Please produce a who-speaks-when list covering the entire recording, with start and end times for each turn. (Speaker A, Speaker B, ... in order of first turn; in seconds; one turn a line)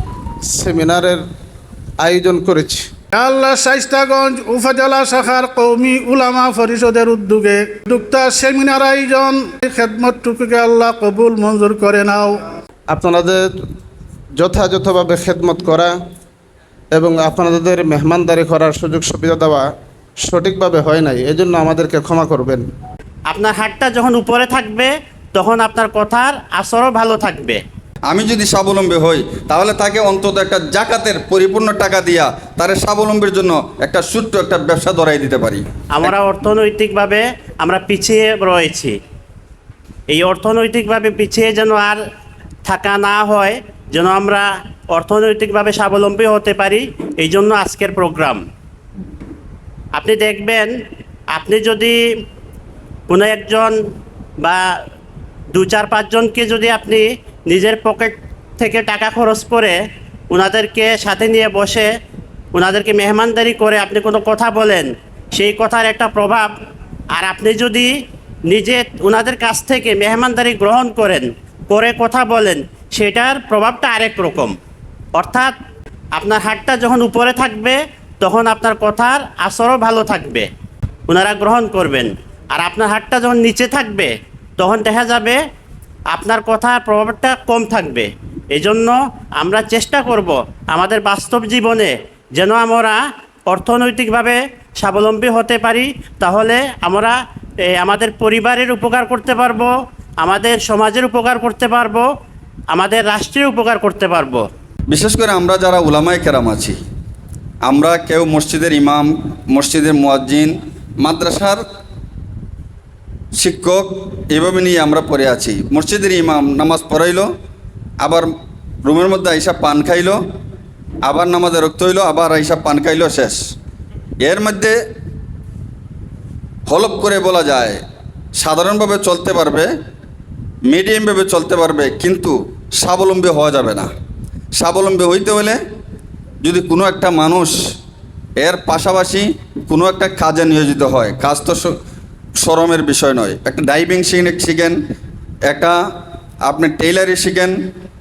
Speaker A: 0.5-1.2
Speaker A: 2.0-2.8
Speaker B: 3.1-12.3
Speaker A: 12.9-13.4
Speaker A: 14.4-16.0
Speaker A: 16.9-19.7
Speaker A: 20.2-22.7
Speaker C: 23.3-27.6
Speaker D: 28.1-36.1
Speaker C: 36.0-39.0
Speaker C: 40.1-42.0
Speaker C: 42.7-48.4
Speaker C: 50.0-50.7
Speaker C: 51.3-52.0
Speaker C: 53.1-53.8
Speaker C: 54.4-54.7
Speaker C: 55.5-59.8
Speaker C: 60.3-61.9
Speaker C: 62.5-66.5
Speaker C: 67.2-67.9
Speaker C: 68.5-74.6
Speaker C: 75.2-75.5
Speaker C: 76.2-80.5
Speaker C: 81.1-85.4
Speaker C: 86.1-97.2
Speaker C: 97.7-102.1
Speaker C: 102.7-104.4
Speaker D: 104.9-106.8
Speaker D: 107.6-111.6
Speaker D: 113.4-117.3
Speaker D: 118.0-118.3
Speaker D: 118.8-120.2
Speaker D: 121.0-123.4
Speaker D: 124.2-124.8
Speaker D: 126.7-127.8
Speaker D: 128.4-129.7
Speaker D: 130.7-133.9
Speaker D: 134.6-135.6
Speaker D: 136.4-137.5
Speaker D: 138.4-141.7
Speaker D: 142.4-144.8
Speaker D: 145.5-145.8
Speaker D: 146.5-147.6